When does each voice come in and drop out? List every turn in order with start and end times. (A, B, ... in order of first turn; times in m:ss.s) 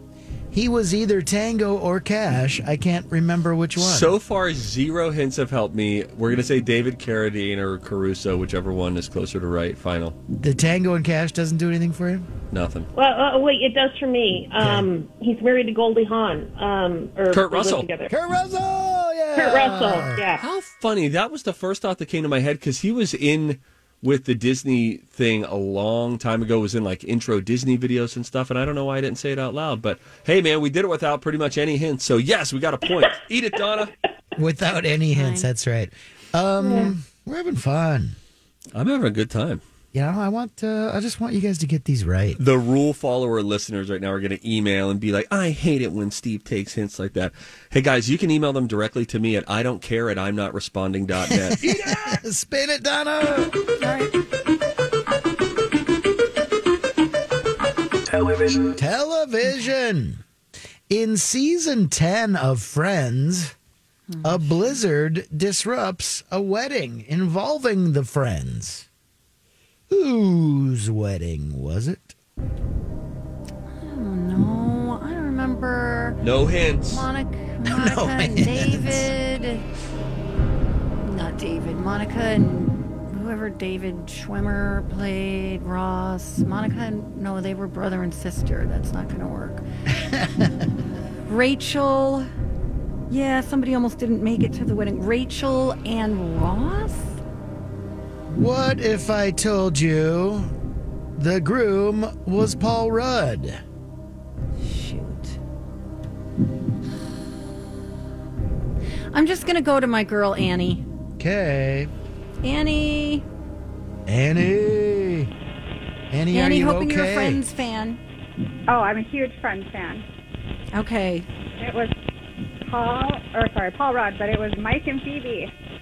0:00.5-0:04.1 A
0:03.8-0:10.2 B
0:10.3-0:12.3 A
0:12.5-0:12.9 B
0:12.9-0:18.1 C
0:14.6-0:14.9 A
0:17.3-0:17.9 B
0:18.1-0:20.2 A
0:19.3-0:20.4 C
0:20.4-0:33.9 B
0:34.4-0:38.2 A
0:35.1-0:35.5 D
0:38.7-0:39.6 B
0:39.9-0:42.4 A
0:42.4-0:52.2 B
0:51.3-0:53.5 A
0:53.8-0:54.1 D
0:58.7-1:00.2 A
1:00.9-1:03.5 A
1:04.1-1:04.8 D
1:04.2-1:08.9 A
1:09.9-1:12.1 A
1:13.8-1:16.2 D
1:16.2-1:17.0 B
1:16.8-1:19.6 D
1:17.6-1:19.1 A
1:21.0-1:29.6 D
1:30.1-1:30.5 A
1:31.3-1:32.3 D
1:33.1-1:37.2 D
1:38.3-1:40.5 A
1:41.2-1:43.6 A
1:44.6-1:45.4 D
1:49.1-1:50.8 D
1:51.2-1:51.9 A
1:52.4-1:53.2 D
1:54.1-1:55.3 A
1:56.1-1:57.4 A
1:56.3-1:58.0 D
1:58.7-2:00.0 E
2:00.7-2:01.2 D
2:01.6-2:01.9 E
2:02.7-2:05.5 E